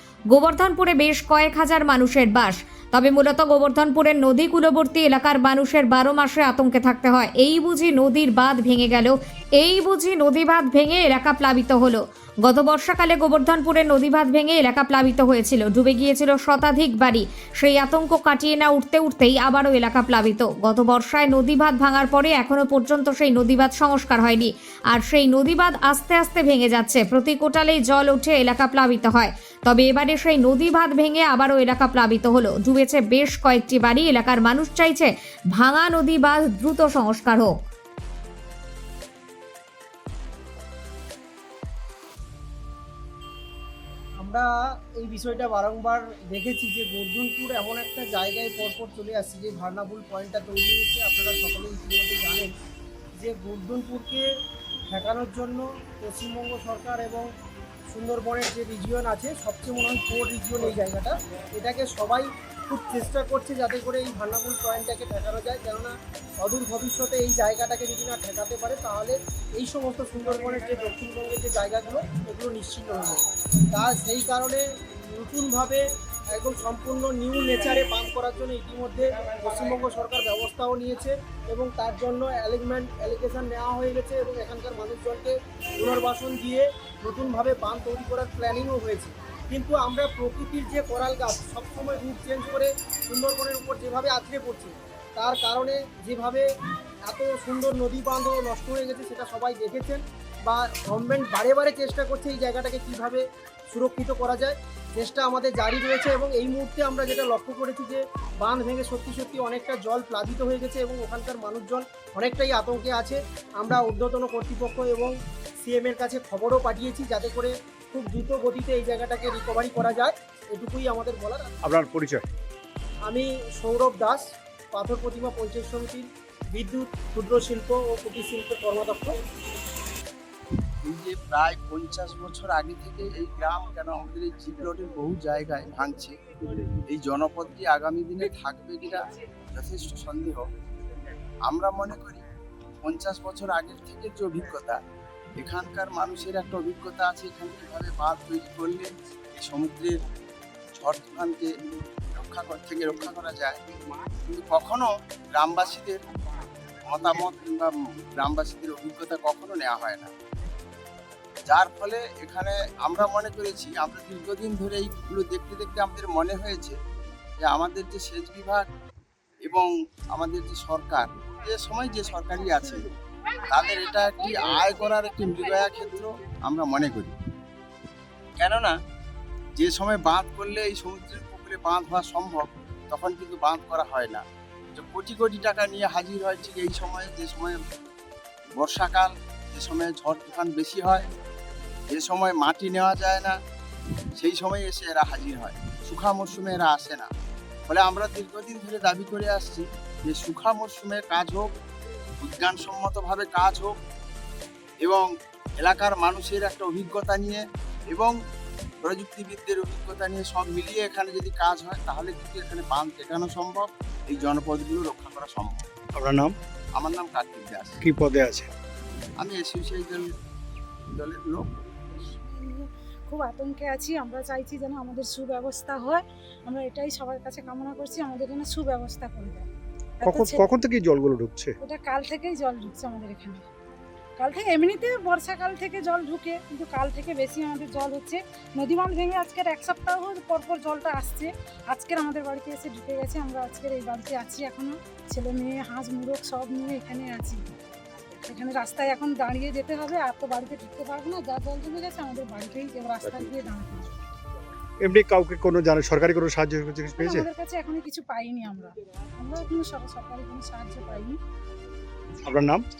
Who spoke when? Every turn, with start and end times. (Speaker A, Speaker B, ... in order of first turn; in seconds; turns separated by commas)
Speaker A: 0.3-37.5, Speaker B: 45.0-52.5, Speaker B: 53.2-54.2, Speaker B: 54.9-57.2, Speaker B: 57.9-75.8, Speaker B: 76.4-96.5, Speaker B: 97.1-115.1, Speaker B: 115.6-121.5, Speaker C: 121.6-122.2, Speaker B: 123.1-129.2, Speaker D: 130.8-140.5, Speaker D: 141.5-142.2, Speaker D: 142.8-144.8, Speaker D: 145.4-149.9, Speaker D: 150.8-151.5, Speaker D: 152.2-153.6, Speaker D: 154.3-156.0, Speaker D: 156.9-160.1, Speaker D: 161.5-166.8, Speaker D: 167.4-168.7, Speaker D: 169.4-172.9, Speaker D: 173.4-177.2, Speaker D: 178.4-178.8, Speaker D: 179.6-184.2, Speaker D: 184.8-187.6, Speaker D: 188.6-191.1, Speaker D: 191.9-193.4, Speaker D: 194.2-197.1, Speaker D: 197.7-201.5, Speaker D: 202.2-203.8, Speaker D: 204.8-205.1, Speaker D: 205.6-208.1, Speaker D: 208.8-215.7, Speaker C: 215.9-216.3, Speaker D: 216.8-217.8, Speaker C: 217.8-218.5, Speaker D: 219.2-220.1, Speaker D: 220.9-221.6, Speaker E: 222.2-229.5, Speaker E: 230.0-230.5, Speaker C: 230.0-231.6, Speaker E: 231.6-233.4, Speaker E: 234.2-247.4, Speaker E: 248.0-253.9, Speaker C: 253.0-253.4, Speaker C: 254.8-257.3, Speaker E: 256.9-261.2, Speaker C: 262.2-262.6